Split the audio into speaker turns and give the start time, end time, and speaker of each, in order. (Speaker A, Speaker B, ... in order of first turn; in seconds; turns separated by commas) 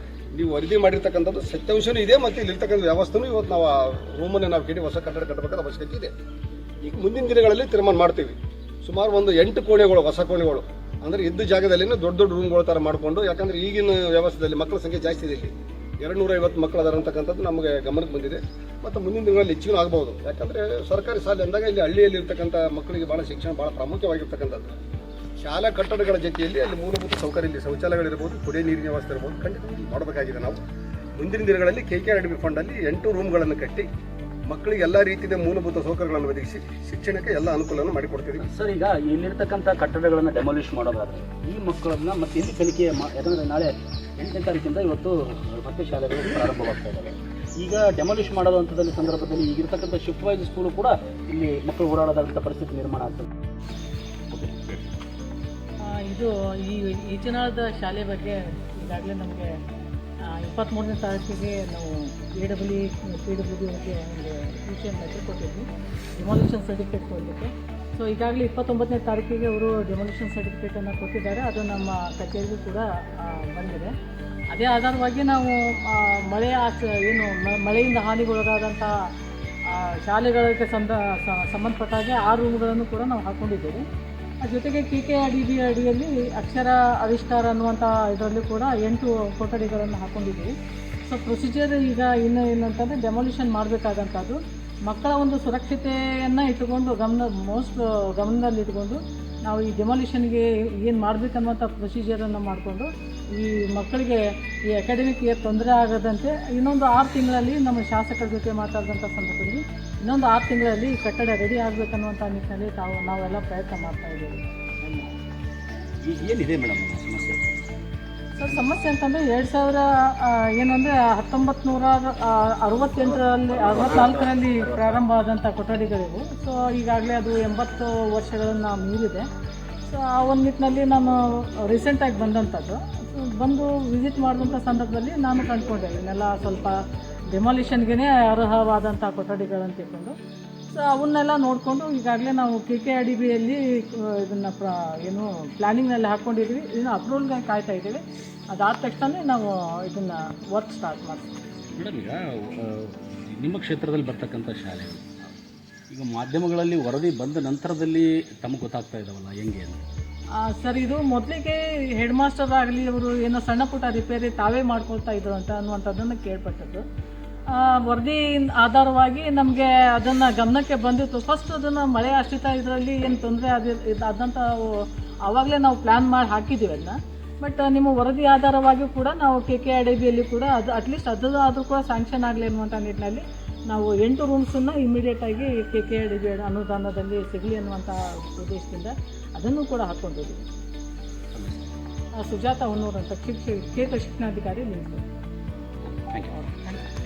Speaker A: 0.3-6.1, Speaker A: 6.8-24.7, Speaker A: 25.4-30.6, Speaker A: 31.2-33.9, Speaker A: 34.5-38.5, Speaker B: 38.4-53.3, Speaker B: 54.3-54.8, Speaker C: 55.9-59.5, Speaker C: 60.3-73.9, Speaker C: 74.5-78.9, Speaker C: 79.7-83.8, Speaker C: 84.4-90.5, Speaker C: 91.0-115.1, Speaker B: 116.0-117.6, Speaker C: 118.3-129.2, Speaker B: 123.5-124.9, Speaker C: 129.9-136.8, Speaker C: 137.3-140.2, Speaker C: 140.7-148.0, Speaker C: 148.5-151.3, Speaker B: 151.7-155.1, Speaker B: 155.9-159.8, Speaker C: 160.4-166.8, Speaker C: 167.5-174.8, Speaker C: 175.3-190.5, Speaker C: 192.2-195.0, Speaker B: 195.9-196.6